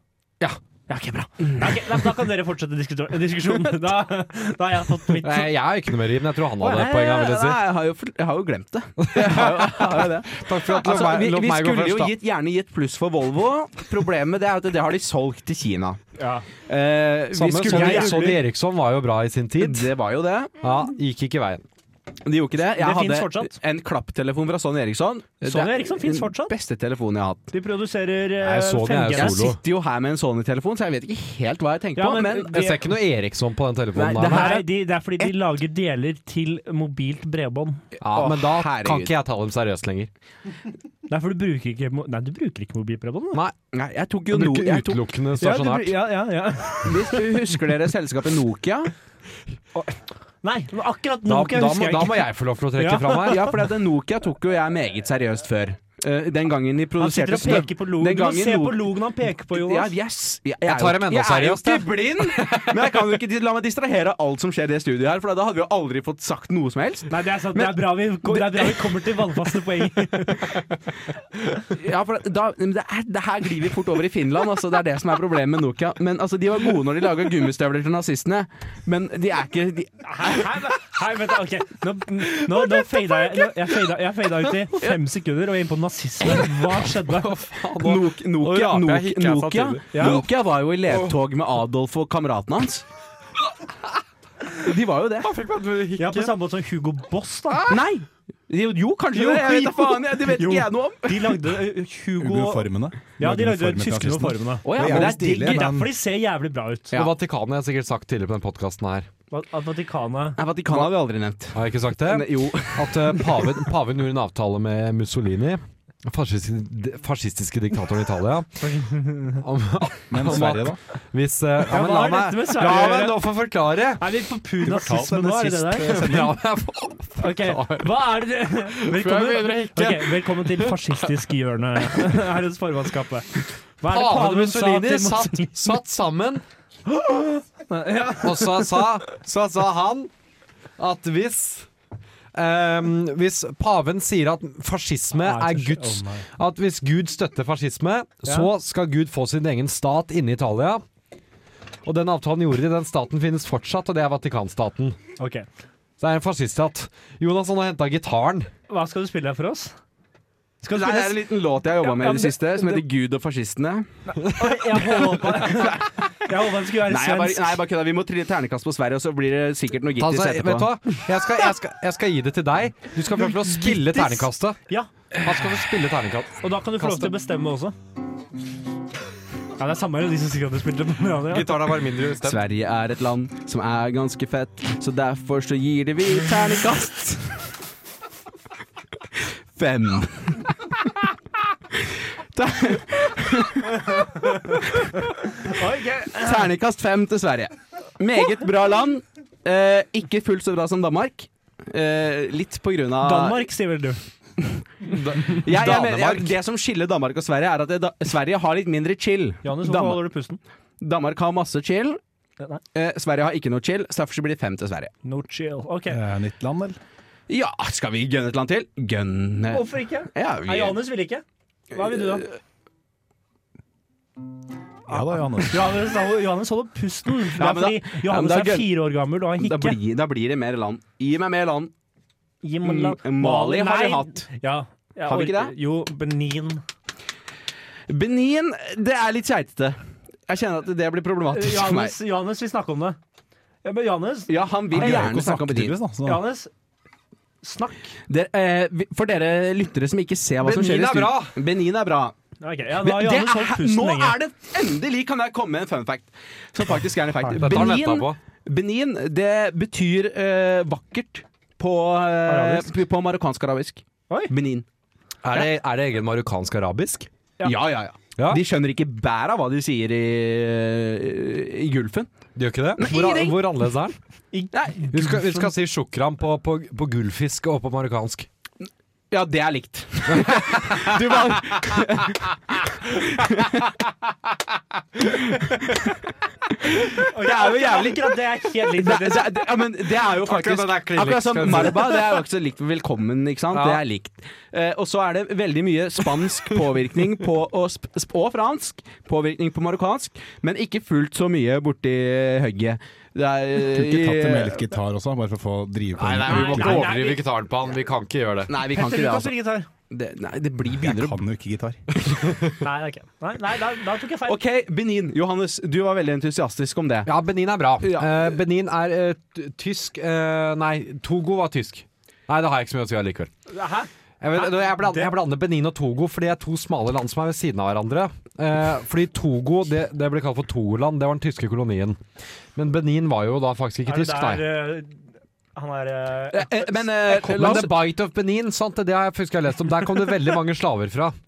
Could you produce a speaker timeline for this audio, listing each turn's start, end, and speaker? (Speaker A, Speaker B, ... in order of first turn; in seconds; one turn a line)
Speaker A: 0.9-5.5
Speaker B: 5.2-7.6
Speaker C: 6.6-16.0
Speaker B: 9.0-12.2
Speaker A: 16.2-16.5
Speaker C: 16.7-18.4
Speaker B: 17.3-19.9
Speaker A: 17.6-18.4
Speaker C: 19.6-20.5
Speaker B: 20.6-21.6
Speaker C: 22.2-27.5
Speaker A: 22.8-23.6
Speaker A: 25.4-26.5
Speaker A: 27.5-29.6
Speaker B: 28.4-29.6
Speaker C: 29.1-32.6
Speaker A: 32.0-32.8
Speaker B: 32.5-34.6
Speaker C: 34.0-34.7
Speaker A: 34.3-37.8
Speaker C: 38.0-39.1
Speaker B: 38.0-40.1
Speaker A: 41.1-43.4
Speaker C: 43.7-45.0
Speaker B: 44.3-46.0
Speaker A: 45.4-47.4
Speaker C: 46.8-48.9
Speaker A: 49.8-53.5
Speaker B: 51.3-53.5
Speaker C: 53.2-58.9
Speaker A: 57.0-59.9
Speaker C: 59.5-69.2
Speaker B: 60.6-62.9
Speaker A: 67.1-70.5
Speaker C: 71.6-80.4
Speaker A: 80.0-87.3
Speaker B: 86.9-90.3
Speaker C: 87.8-92.8
Speaker A: 89.9-90.2
Speaker B: 90.9-91.2
Speaker C: 94.6-95.3
Speaker B: 95.2-96.3
Speaker A: 96.0-97.7
Speaker B: 97.5-97.8
Speaker C: 97.7-101.4
Speaker A: 99.1-107.0
Speaker D: 102.2-105.9
Speaker C: 104.7-105.8
Speaker B: 106.9-109.1
Speaker A: 109.3-110.4
Speaker C: 110.4-113.7
Speaker B: 111.5-118.7
Speaker A: 118.6-119.4
Speaker B: 119.3-124.2
Speaker D: 120.1-120.8
Speaker A: 121.7-123.3
Speaker A: 124.0-126.2
Speaker D: 124.6-126.3
Speaker B: 125.7-128.1
Speaker A: 127.2-135.6
Speaker B: 128.7-130.8
Speaker B: 133.8-136.4
Speaker A: 136.9-139.0
Speaker B: 138.2-140.1
Speaker B: 140.8-141.7
Speaker B: 142.3-150.8
Speaker A: 145.2-146.3
Speaker A: 148.2-148.5
Speaker B: 151.8-155.0
Speaker A: 155.2-155.5
Speaker B: 156.0-158.5
Speaker A: 158.7-159.7
Speaker A: 160.6-161.2
Speaker C: 160.7-163.9
Speaker A: 161.8-162.8
Speaker A: 164.1-167.5
Speaker B: 164.4-165.2
Speaker C: 165.3-165.9
Speaker C: 166.8-170.7
Speaker B: 170.0-174.6
Speaker A: 173.2-174.9
Speaker B: 175.2-177.1
Speaker A: 176.4-177.8
Speaker A: 179.6-181.6
Speaker B: 181.3-182.4
Speaker C: 182.2-187.4
Speaker C: 189.2-191.1
Speaker C: 191.8-195.0
Speaker A: 195.3-196.5
Speaker C: 196.1-203.5
Speaker A: 203.0-204.0
Speaker C: 204.4-210.0
Speaker B: 204.9-206.3
Speaker A: 209.4-210.4
Speaker C: 210.8-212.0
Speaker C: 212.7-214.9
Speaker A: 215.1-216.0
Speaker D: 215.9-216.8
Speaker C: 217.3-220.8
Speaker A: 219.5-222.3
Speaker C: 221.8-222.4
Speaker D: 224.9-225.8
Speaker A: 225.5-229.8
Speaker C: 227.4-228.7
Speaker C: 229.4-231.7
Speaker A: 232.4-236.6
Speaker C: 232.6-234.3
Speaker C: 235.1-235.5
Speaker C: 237.9-241.9
Speaker A: 241.3-243.0
Speaker A: 243.6-245.1
Speaker C: 244.3-245.8
Speaker D: 244.7-246.2
Speaker A: 246.0-246.5
Speaker A: 247.4-247.9
Speaker C: 248.1-252.2
Speaker B: 250.4-251.3
Speaker A: 252.4-254.2
Speaker C: 252.8-264.7
Speaker A: 257.2-257.6
Speaker B: 257.4-258.2
Speaker A: 262.3-262.7
Speaker B: 265.2-267.1
Speaker C: 267.4-272.1
Speaker B: 268.2-268.4
Speaker B: 272.4-274.0
Speaker C: 272.8-273.4
Speaker A: 274.3-275.4
Speaker C: 274.5-275.1
Speaker B: 274.9-278.3
Speaker C: 279.1-283.9
Speaker B: 280.1-281.8
Speaker C: 285.0-285.9
Speaker C: 286.7-288.2
Speaker A: 287.0-289.4
Speaker C: 288.7-304.7
Speaker B: 290.2-292.2
Speaker B: 293.5-293.8
Speaker D: 303.6-306.9
Speaker B: 306.0-308.5
Speaker A: 306.3-307.2
Speaker C: 306.3-306.6
Speaker C: 308.5-309.3
Speaker A: 308.6-309.7
Speaker C: 309.9-311.2
Speaker D: 310.7-311.8
Speaker B: 312.1-312.5
Speaker A: 312.6-314.4
Speaker C: 314.3-317.1
Speaker B: 317.1-323.3
Speaker C: 317.8-318.3
Speaker A: 323.5-325.1
Speaker B: 324.2-332.0
Speaker B: 332.6-334.5
Speaker A: 333.9-335.0
Speaker A: 335.6-336.7
Speaker C: 336.3-337.9
Speaker B: 337.1-341.1